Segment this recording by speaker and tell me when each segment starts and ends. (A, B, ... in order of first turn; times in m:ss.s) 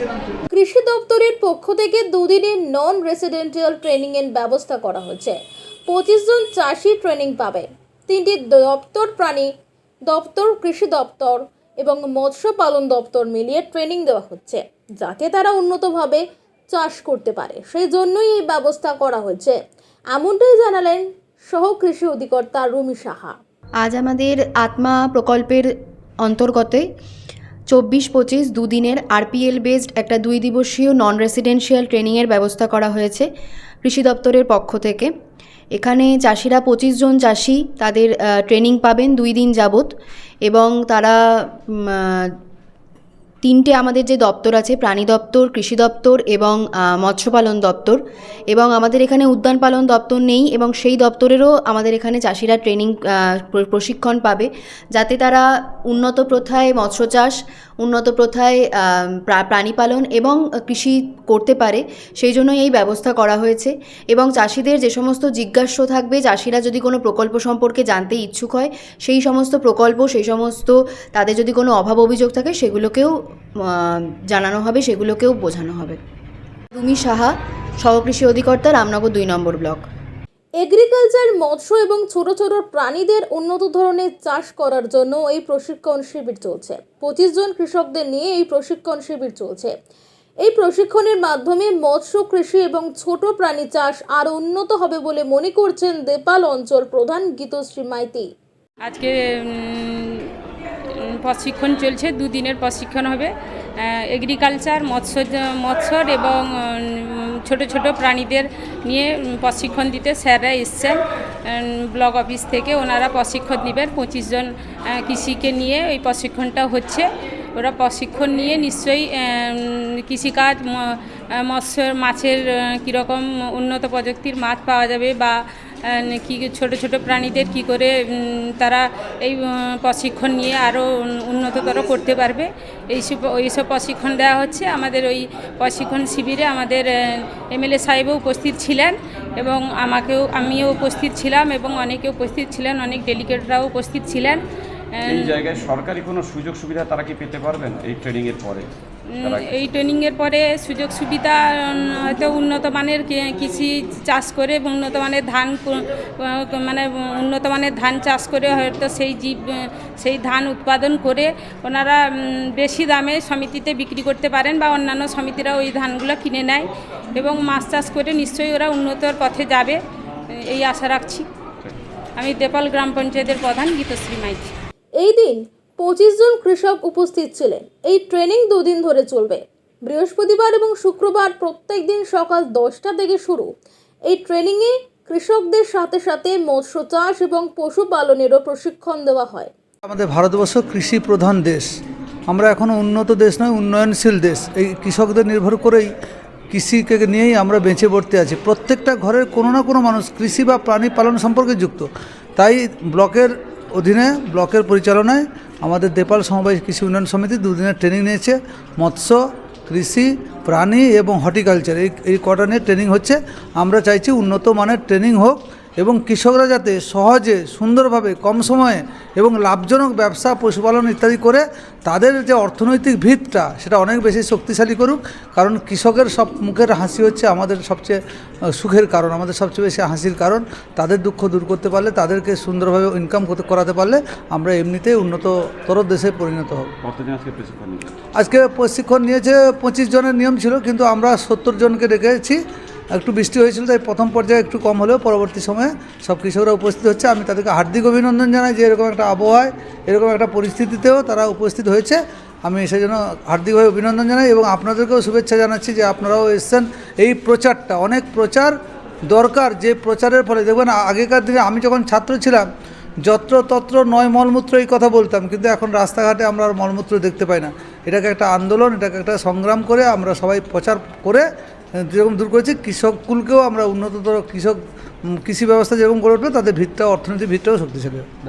0:00.5-0:09.5 A
0:10.1-0:19.6 A
0:20.1-0:23.4 A
0:23.8-0:25.7 B
0:26.2-0:26.8 B
0:27.7-0:33.3 B
0:33.8-0:35.1 B
0:35.7-0:39.9 B
0:40.4-0:42.3 B
0:43.4-1:16.0 B
1:16.7-1:19.8 B
1:20.6-1:29.7 A
1:30.4-1:38.3 A
1:38.8-1:40.3 C
1:41.2-2:24.4 C
2:25.0-2:25.5 C
2:25.0-2:28.7 D
2:29.2-2:49.8 C
2:29.2-2:29.8 D
2:50.5-2:51.3 C
2:52.2-2:54.5 C
2:55.0-3:03.5 A
3:04.1-3:09.5 A
3:09.9-3:11.7 E
3:12.3-3:15.9 E
3:16.5-3:48.0 E
3:48.5-3:56.7 E
3:56.8-3:58.0 D
3:58.1-4:02.4 E
4:02.9-4:18.5 E
4:19.1-4:22.5 E
4:23.0-4:31.2 E
4:31.8-4:34.6 E
4:35.2-4:38.0 E